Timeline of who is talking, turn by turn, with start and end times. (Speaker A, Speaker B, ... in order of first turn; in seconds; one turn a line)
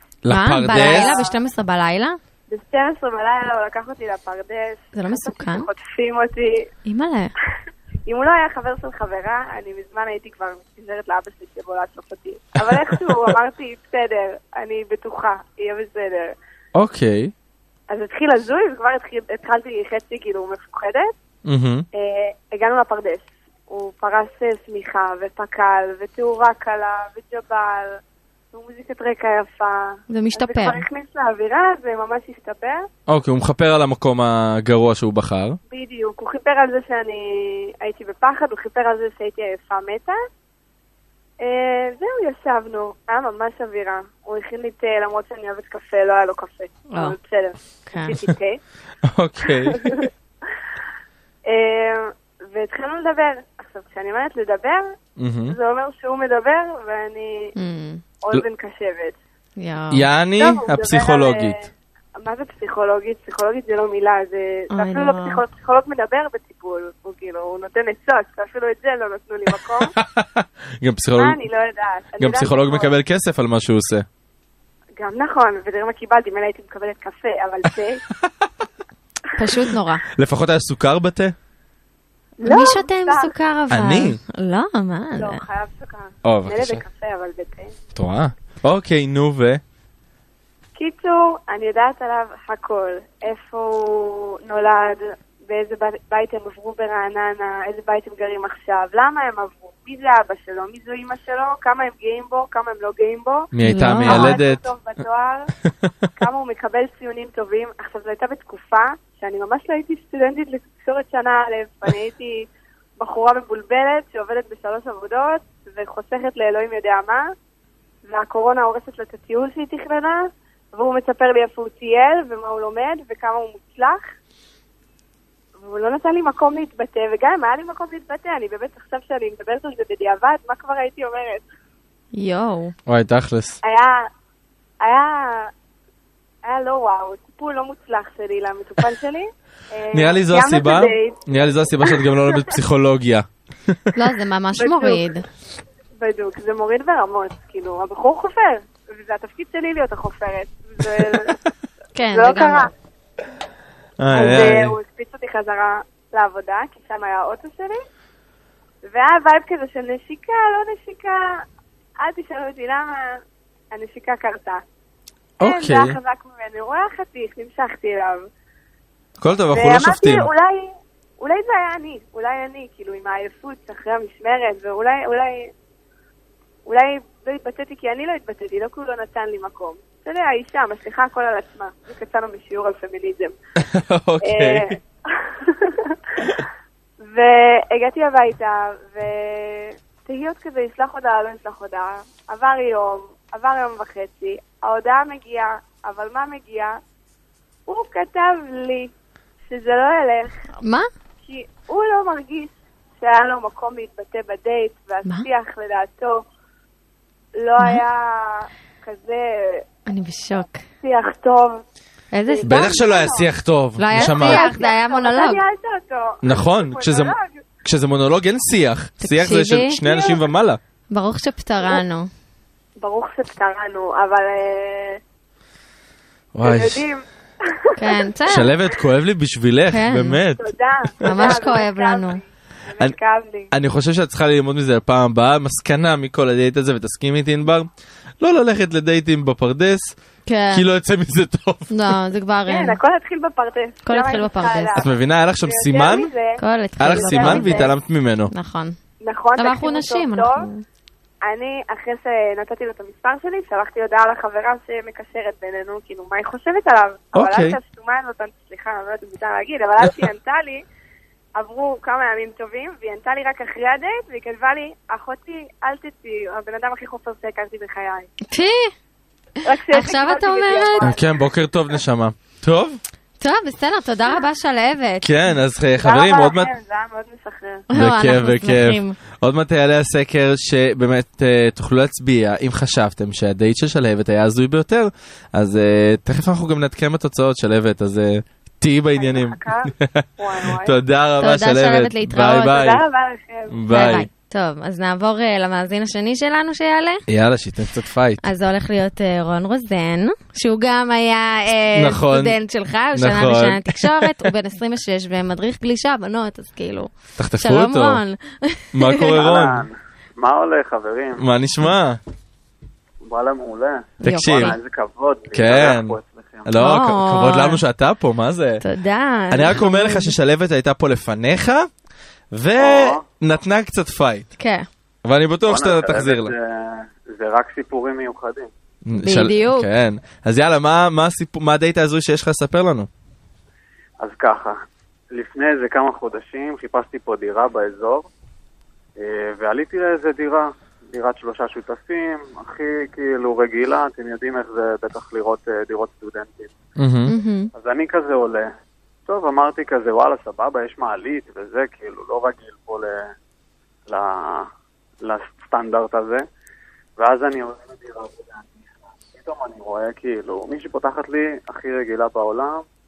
Speaker A: 0.2-1.2
Speaker B: 0.3-2.2
Speaker C: 0.7-1.3
Speaker C: 2.5-6.7
Speaker B: 4.9-5.7
Speaker B: 6.8-7.3
Speaker C: 8.1-16.3
Speaker A: 12.7-13.3
Speaker A: 16.7-17.3
Speaker C: 17.9-21.1
Speaker A: 21.4-21.9
Speaker C: 21.9-28.0
Speaker C: 28.5-32.8
Speaker B: 30.1-30.8
Speaker A: 33.1-35.6
Speaker C: 35.7-40.2
Speaker C: 41.4-48.6
Speaker B: 46.9-47.1
Speaker B: 47.9-48.2
Speaker A: 49.0-50.1
Speaker C: 49.5-50.1
Speaker C: 51.5-54.8
Speaker A: 55.2-55.5
Speaker C: 55.5-57.5
Speaker B: 57.5-58.0
Speaker C: 58.2-59.1
Speaker B: 59.6-60.0
Speaker A: 59.9-61.6
Speaker C: 60.4-61.7
Speaker C: 62.2-69.9
Speaker B: 64.7-65.4
Speaker A: 69.8-71.4
Speaker C: 71.2-72.9
Speaker A: 72.2-74.0
Speaker C: 75.0-78.0
Speaker B: 79.3-80.0
Speaker A: 80.2-81.3
Speaker C: 82.4-83.3
Speaker B: 82.4-85.4
Speaker A: 83.7-84.2
Speaker C: 85.2-87.7
Speaker A: 86.2-86.8
Speaker A: 87.9-89.6
Speaker C: 90.8-103.5
Speaker A: 103.5-104.6
Speaker B: 103.7-104.4
Speaker C: 104.0-105.5
Speaker C: 106.1-112.4
Speaker C: 113.0-117.3
Speaker C: 118.0-124.0
Speaker C: 125.6-131.4
Speaker B: 132.1-132.7
Speaker A: 132.9-133.6
Speaker C: 133.6-134.1
Speaker C: 134.8-135.5
Speaker C: 136.4-142.5
Speaker A: 139.9-143.3
Speaker B: 143.9-145.2
Speaker C: 144.6-145.1
Speaker C: 146.0-151.4
Speaker B: 151.9-152.7
Speaker C: 152.1-152.7
Speaker A: 154.0-154.7
Speaker C: 154.1-157.8
Speaker C: 158.9-161.2
Speaker C: 162.0-163.1
Speaker C: 163.7-164.6
Speaker A: 165.4-166.0
Speaker C: 165.4-168.2
Speaker A: 169.2-170.3
Speaker C: 169.5-175.5
Speaker C: 176.7-183.3
Speaker A: 183.6-184.7
Speaker C: 184.2-186.4
Speaker C: 187.0-196.8
Speaker C: 197.7-198.9
Speaker C: 199.5-200.4
Speaker B: 200.6-200.9
Speaker C: 201.2-206.2
Speaker C: 207.4-209.6
Speaker B: 209.9-210.6
Speaker C: 210.8-211.6
Speaker B: 212.1-212.7
Speaker C: 212.2-213.3
Speaker A: 212.4-214.5
Speaker B: 213.8-215.4
Speaker C: 213.9-217.4
Speaker A: 216.2-220.6
Speaker B: 219.0-219.8
Speaker C: 219.8-220.2
Speaker B: 220.9-222.1
Speaker C: 222.8-225.0
Speaker A: 226.3-226.8
Speaker C: 226.4-228.0
Speaker B: 227.8-228.5
Speaker A: 228.3-231.4
Speaker B: 229.7-230.2
Speaker C: 230.4-233.5
Speaker B: 231.0-232.2
Speaker A: 233.5-237.7
Speaker A: 238.2-239.9
Speaker B: 240.3-240.6
Speaker A: 240.5-241.9
Speaker B: 241.7-242.8
Speaker C: 242.5-247.7
Speaker B: 243.8-244.8
Speaker A: 244.8-246.1
Speaker B: 246.4-247.7
Speaker A: 246.8-248.3
Speaker B: 248.3-248.8
Speaker C: 249.0-250.5
Speaker B: 249.4-250.6
Speaker C: 251.2-260.6
Speaker A: 257.1-257.6
Speaker C: 261.4-268.1
Speaker B: 268.3-268.7
Speaker C: 269.4-271.1
Speaker B: 269.7-270.9
Speaker A: 270.8-272.8
Speaker B: 273.2-275.1
Speaker A: 275.0-276.5
Speaker C: 275.8-277.6
Speaker B: 277.7-279.0
Speaker A: 277.7-292.8
Speaker C: 289.0-290.8
Speaker B: 291.2-292.6
Speaker C: 292.5-293.9
Speaker A: 293.5-294.1
Speaker B: 293.7-297.0
Speaker A: 297.1-298.2
Speaker B: 298.2-309.2
Speaker A: 301.7-302.3
Speaker A: 302.9-304.3
Speaker A: 307.2-308.0
Speaker A: 308.7-309.6
Speaker D: 309.1-311.2
Speaker A: 311.2-312.0
Speaker D: 313.0-316.5
Speaker B: 314.0-314.6
Speaker A: 314.0-314.6
Speaker A: 315.3-318.6
Speaker B: 316.6-317.6
Speaker B: 318.6-320.1
Speaker A: 319.3-321.7
Speaker A: 322.3-324.3
Speaker D: 322.6-323.0
Speaker B: 324.4-324.7
Speaker A: 325.0-326.3
Speaker D: 325.4-328.5
Speaker A: 328.9-332.9
Speaker B: 329.0-329.7
Speaker D: 334.0-334.5
Speaker D: 335.1-338.1
Speaker D: 339.0-346.5
Speaker A: 346.8-347.1
Speaker B: 347.1-347.5
Speaker D: 347.6-348.5
Speaker D: 349.1-353.1
Speaker D: 353.9-354.5
Speaker D: 355.0-356.2
Speaker D: 357.0-362.6